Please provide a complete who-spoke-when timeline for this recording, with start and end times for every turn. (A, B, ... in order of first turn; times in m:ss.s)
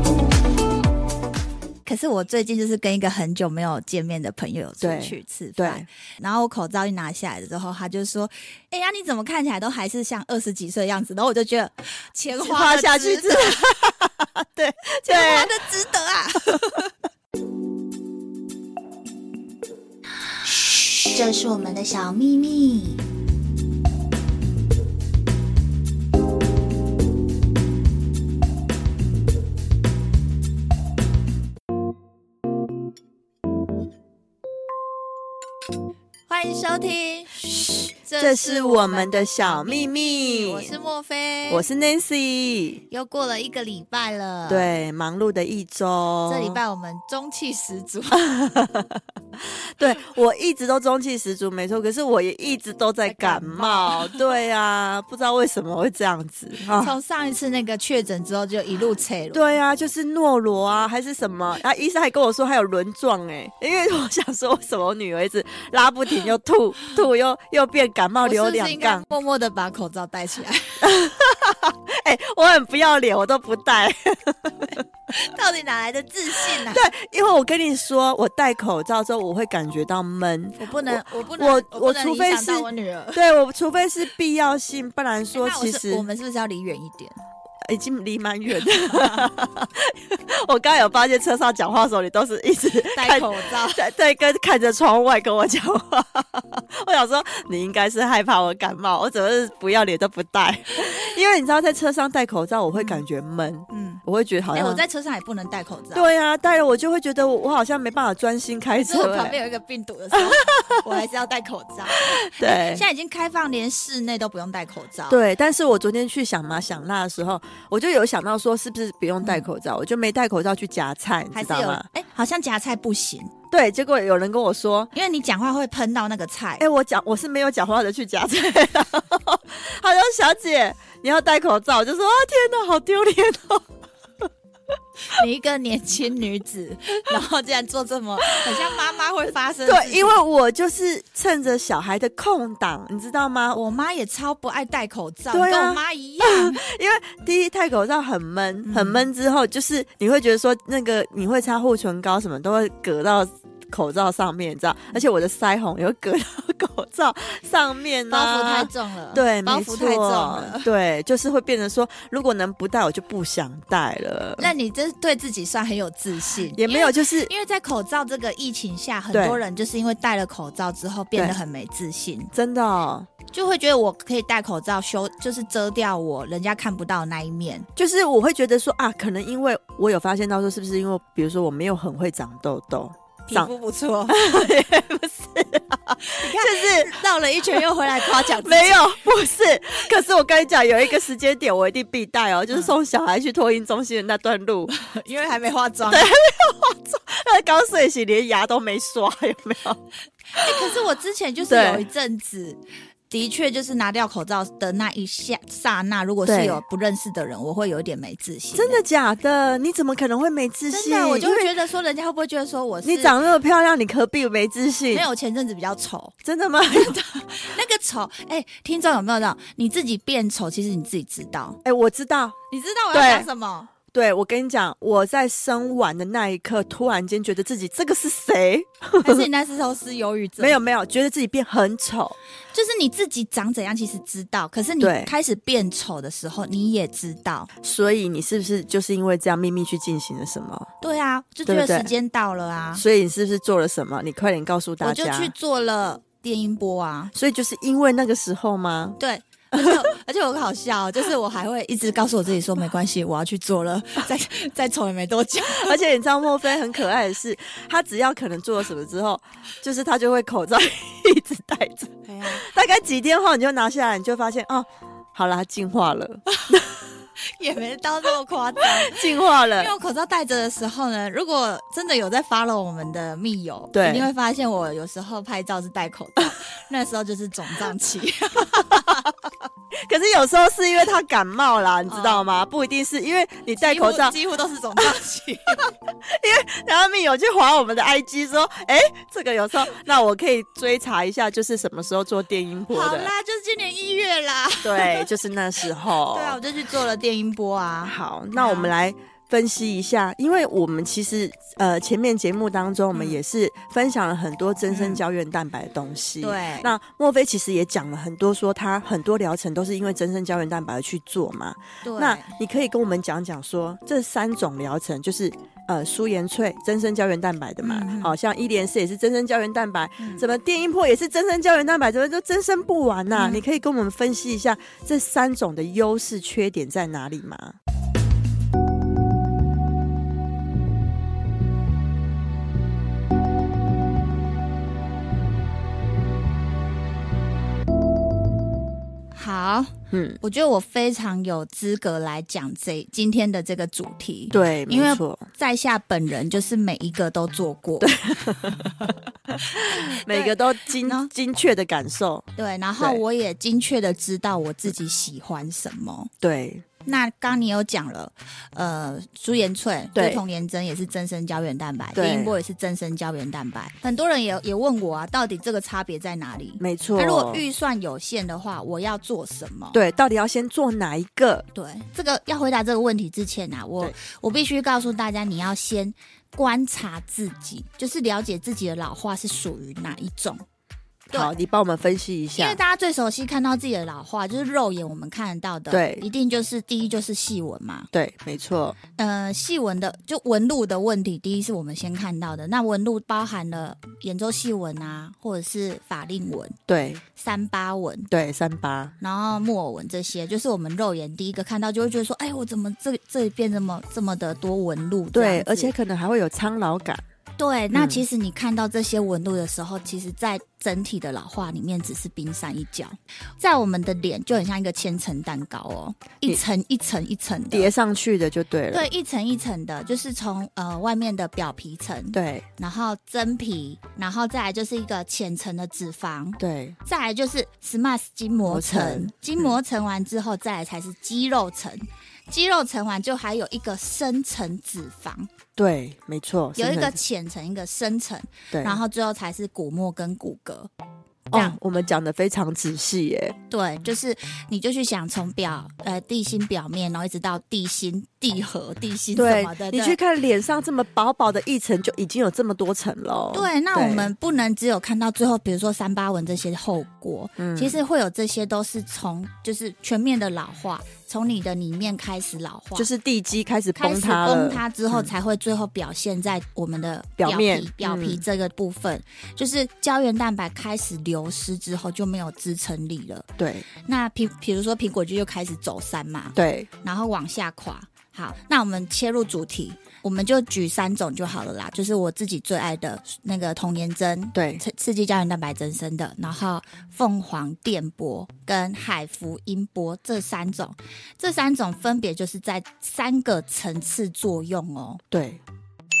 0:01.8-0:13.8 A
0:04.8-0:05.8 B
0:12.4-0:15.5 B
0:15.0-0:16.9 A
0:20.4-0:23.0 A
0:36.3-0:37.4 A
0:37.5-0:40.7 B
0:38.0-0:41.6 A
0:41.5-0:42.8 B
0:42.9-0:44.8 A
0:44.5-0:46.6 B
0:46.2-0:48.3 A
0:48.1-0:56.9 B
0:53.0-0:54.2 A
0:56.7-0:59.5 A
0:59.3-1:09.0 B
1:08.2-1:10.9 A
1:10.8-1:14.8 B
1:15.1-1:16.9 A
1:16.4-1:26.0 B
1:20.6-1:23.2 A
1:25.3-1:27.2 A
1:27.6-1:44.8 B
1:28.9-1:29.3 A
1:32.9-1:33.8 A
1:42.7-1:43.0 A
1:43.7-1:44.0 A
1:44.5-1:46.1 A
1:45.9-1:49.4 B
1:48.8-1:55.2 A
1:50.1-1:51.0 B
1:51.9-1:52.8 B
1:55.1-2:01.8 B
2:01.3-2:03.3 A
2:03.5-2:04.9 B
2:04.9-2:06.6 A
2:06.6-2:14.3 B
2:15.1-2:20.2 A
2:18.4-2:18.8 B
2:19.6-2:23.6 B
2:23.5-2:26.6 A
2:25.3-2:44.5 B
2:28.6-2:29.0 A
2:38.1-2:40.7 A
2:44.4-2:52.3 A
2:46.5-2:47.3 B
2:49.1-2:49.4 B
2:52.3-2:53.1 B
2:53.3-2:57.7 A
2:57.8-3:03.5 B
3:03.3-3:04.2 A
3:04.1-3:07.0 B
3:06.0-3:09.0 A
3:07.5-3:14.7 B
3:14.7-3:16.1 A
3:15.9-3:19.8 B
3:20.3-3:22.6 A
3:20.4-3:20.8 B
3:21.4-3:21.8 B
3:23.1-3:28.8 A
3:26.2-3:26.6 B
3:28.5-3:31.5 B
3:30.7-3:33.1 A
3:32.8-3:35.0 B
3:34.9-3:36.1 A
3:36.2-3:37.0 B
3:36.7-3:41.6 A
3:41.6-3:42.4 B
3:42.5-3:43.7 A
3:42.9-3:43.3 B
3:43.9-3:49.3 B
3:49.0-3:50.6 A
3:50.4-3:52.2 B
3:52.5-3:57.5 A
3:54.8-3:55.1 B
3:57.6-4:00.7 B
4:00.8-4:02.8 A
4:01.4-4:01.9 B
4:02.8-4:05.3 B
4:04.8-4:07.1 A
4:07.1-4:09.0 B
4:09.0-4:15.8 A
4:09.5-4:09.8 B
4:15.4-4:26.8 B
4:22.0-4:22.4 A
4:27.2-4:39.1 A
4:28.6-4:29.7 B
4:33.7-4:34.1 B
4:38.5-4:44.2 B
4:41.9-4:42.2 A
4:43.6-4:45.6 A
4:45.6-4:53.1 B
4:52.7-4:55.1 A
4:54.6-4:56.4 B
4:56.0-4:58.7 A
4:57.8-5:27.6 B
5:02.9-5:03.2 A
5:04.7-5:05.0 A
5:06.2-5:06.7 A
5:11.8-5:12.4 A
5:17.6-5:18.2 A
5:20.0-5:20.2 A
5:23.1-5:23.4 A
5:39.1-5:48.0 A
5:39.9-5:40.2 B
5:44.3-5:45.3 B
5:47.8-5:52.3 B
5:49.5-5:51.1 A
5:52.4-5:56.1 A
5:56.2-5:56.6 B
5:56.8-6:09.8 A
5:59.9-6:00.2 B
6:02.0-6:02.3 B
6:06.6-6:07.4 B
6:09.7-6:11.4 B
6:11.5-6:20.4 A
6:21.1-6:22.6 B
6:22.3-6:27.9 A
6:25.7-6:26.0 B
6:27.9-6:28.8 B
6:29.0-6:36.6 A
6:36.7-6:37.0 B
6:37.2-6:38.1 A
6:38.1-6:38.9 B
6:39.0-6:45.7 A
6:45.1-6:47.0 B
6:47.4-6:57.7 A
6:47.7-6:48.0 B
6:57.5-6:58.8 B
6:58.7-7:15.3 A
7:02.1-7:02.4 B
7:06.4-7:06.8 B
7:08.5-7:09.5 B
7:15.6-7:17.0 B
7:16.6-7:20.7 A
7:18.5-7:18.8 B
7:21.3-7:23.4 B
7:23.5-7:30.0 A
7:29.2-7:34.1 B
7:33.3-7:42.9 A
7:37.4-7:37.8 B
7:42.8-7:45.1 B
7:43.8-8:15.0 A
7:47.2-7:48.2 B
7:53.4-7:53.6 B
7:56.3-7:56.7 B
8:04.3-8:04.6 B
8:15.1-8:15.4 B